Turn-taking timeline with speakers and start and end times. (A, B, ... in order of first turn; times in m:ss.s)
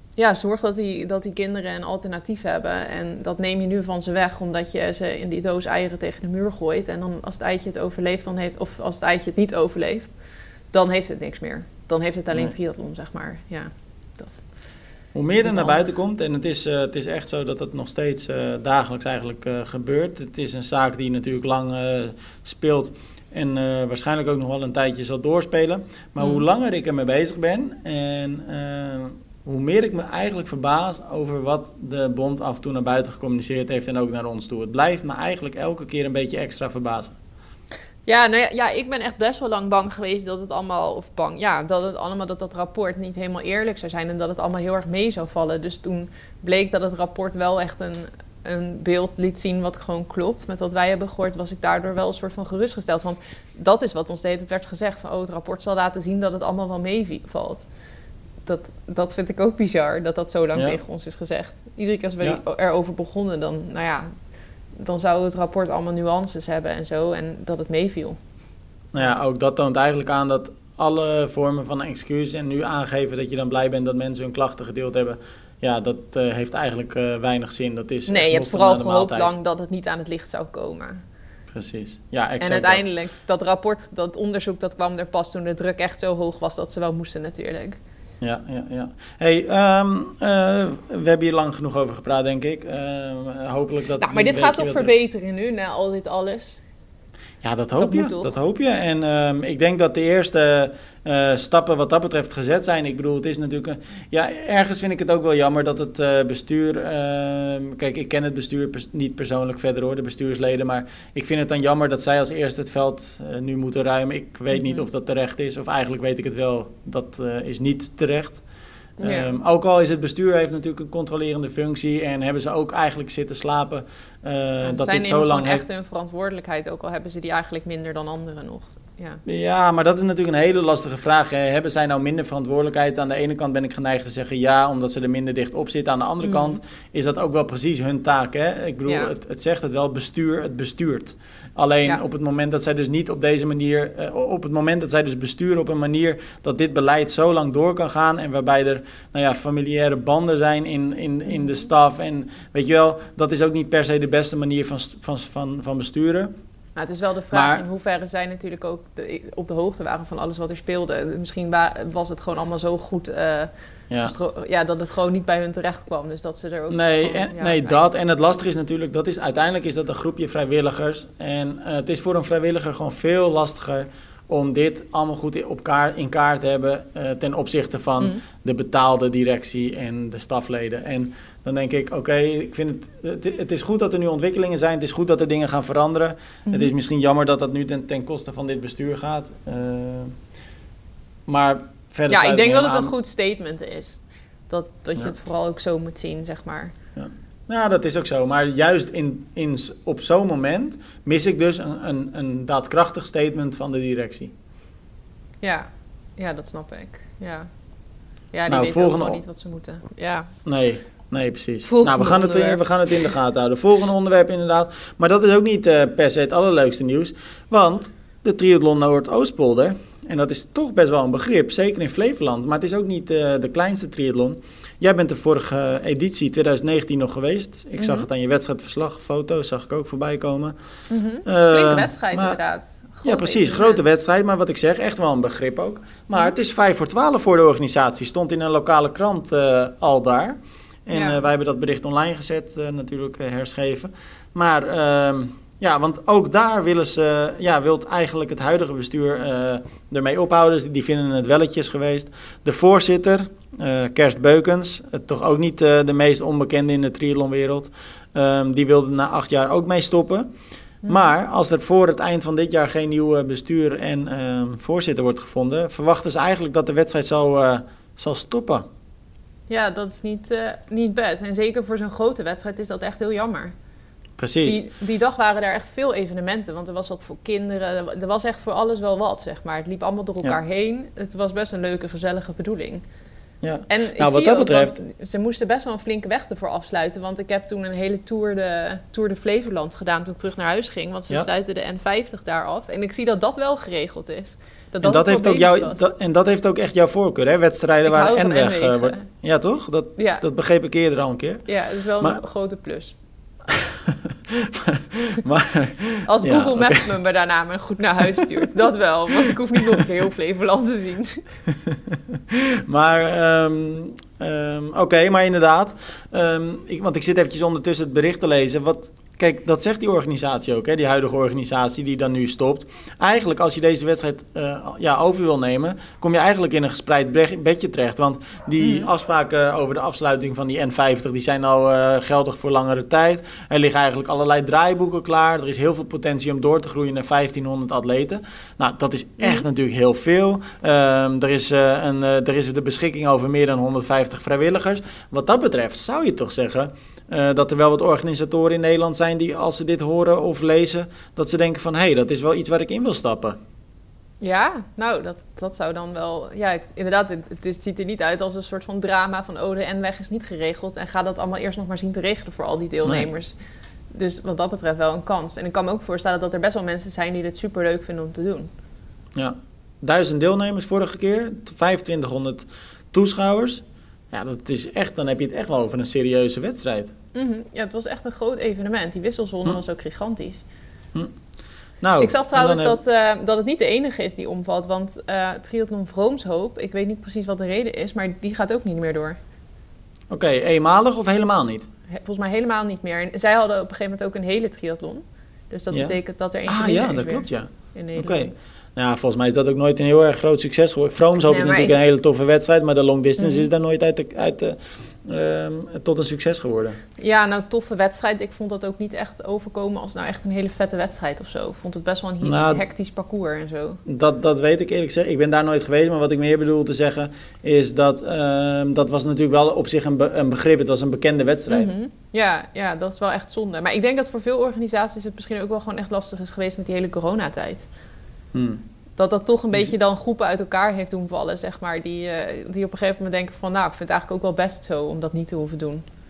0:00.2-0:10.1 A
0:10.7-0:14.4 A
0:15.1-0:37.1 B
0:15.4-0:15.8 A
0:26.2-0:26.4 A
0:38.0-0:57.6 A
0:58.4-1:04.1 A
1:04.8-1:08.2 A
1:08.9-1:19.3 B
1:18.1-1:21.0 A
1:21.5-1:22.8 B
1:22.4-1:27.8 A
1:28.2-1:34.9 B
1:34.0-1:36.6 A
1:37.4-1:58.4 B
1:37.8-1:38.4 A
1:54.5-1:54.8 A
1:59.0-1:59.3 A
1:59.0-2:05.6 B
2:04.6-2:09.2 A
2:09.2-2:36.3 B
2:16.2-2:16.6 A
2:36.8-2:43.5 A
2:37.3-2:37.6 B
2:44.0-2:47.7 A
2:46.7-3:10.1 B
3:06.5-3:06.7 A
3:11.3-3:12.9 B
3:12.1-3:16.7 A
3:17.0-3:24.3 B
3:25.4-3:27.5 A
3:28.3-3:30.3 A
3:28.5-3:29.2 B
3:30.4-3:50.5 B
3:31.7-3:32.6 A
3:47.8-3:48.1 A
3:50.9-3:53.8 A
3:51.2-3:52.4 B
3:53.0-4:20.3 B
4:00.9-4:01.2 A
4:20.9-4:28.6 B
4:29.5-4:33.5 A
4:34.2-4:34.6 B
4:34.4-4:42.8 A
4:43.4-4:44.8 B
4:43.7-4:55.8 A
4:54.8-5:01.5 B
4:57.8-4:59.0 A
5:00.0-5:00.2 A
5:01.5-5:02.9 A
5:03.5-5:06.9 B
5:06.0-5:11.2 A
5:09.3-5:09.8 B
5:11.6-5:53.4 B
5:28.6-5:28.9 A
5:54.2-6:03.3 A
6:03.9-6:08.5 A
6:09.1-6:16.9 B
6:17.1-6:20.4 A
6:21.8-6:22.8 B
6:22.0-6:29.2 A
6:30.1-6:31.7 B
6:31.9-6:38.4 A
6:36.5-6:46.8 B
6:41.3-6:41.7 A
6:43.2-6:43.5 A
6:47.0-6:53.8 A
6:52.2-6:52.6 B
6:53.8-7:01.7 B
7:01.5-7:07.6 A
7:08.3-7:08.6 B
7:09.0-7:15.8 A